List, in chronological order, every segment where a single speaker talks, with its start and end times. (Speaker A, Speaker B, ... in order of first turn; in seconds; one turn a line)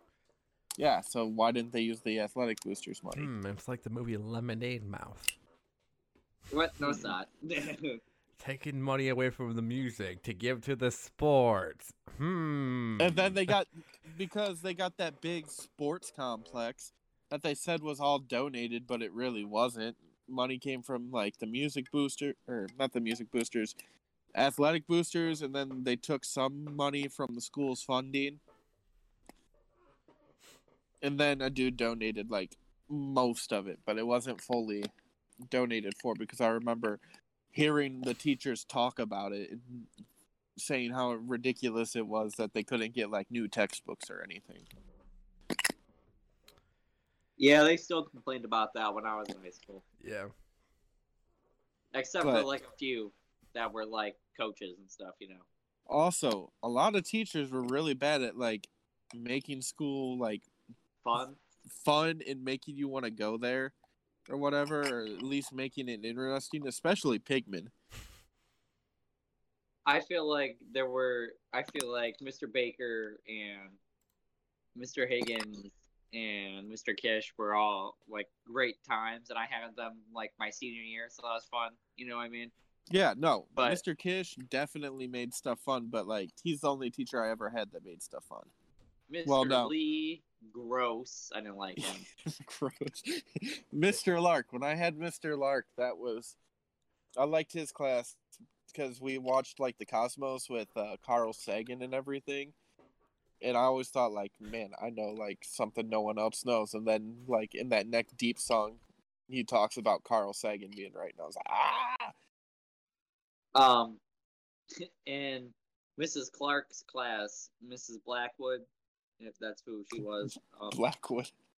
Speaker A: 0.8-3.3
Speaker B: 3.1-5.3
Speaker C: 6.5-8.0
Speaker B: 8.4-13.5
Speaker A: 13.0-23.7
Speaker A: 24.3-28.4
Speaker A: 31.0-34.9
Speaker A: 35.5-37.0
Speaker A: 37.5-39.9
Speaker A: 40.6-44.7
Speaker C: 47.4-49.8
Speaker B: 50.0-50.3
Speaker C: 51.9-55.5
Speaker A: 52.2-52.5
Speaker A: 55.9-60.5
Speaker C: 61.0-61.4
Speaker A: 61.7-63.7
Speaker A: 64.3-67.7
Speaker C: 69.8-73.8
Speaker C: 74.7-82.5
Speaker A: 82.9-88.5
Speaker C: 83.5-83.8
Speaker C: 89.1-92.0
Speaker A: 89.2-89.7
Speaker A: 91.8-96.3
Speaker A: 97.2-102.5
Speaker A: 103.4-112.1
Speaker C: 113.5-114.0
Speaker C: 114.8-118.7
Speaker C: 119.2-120.8
Speaker A: 120.2-121.3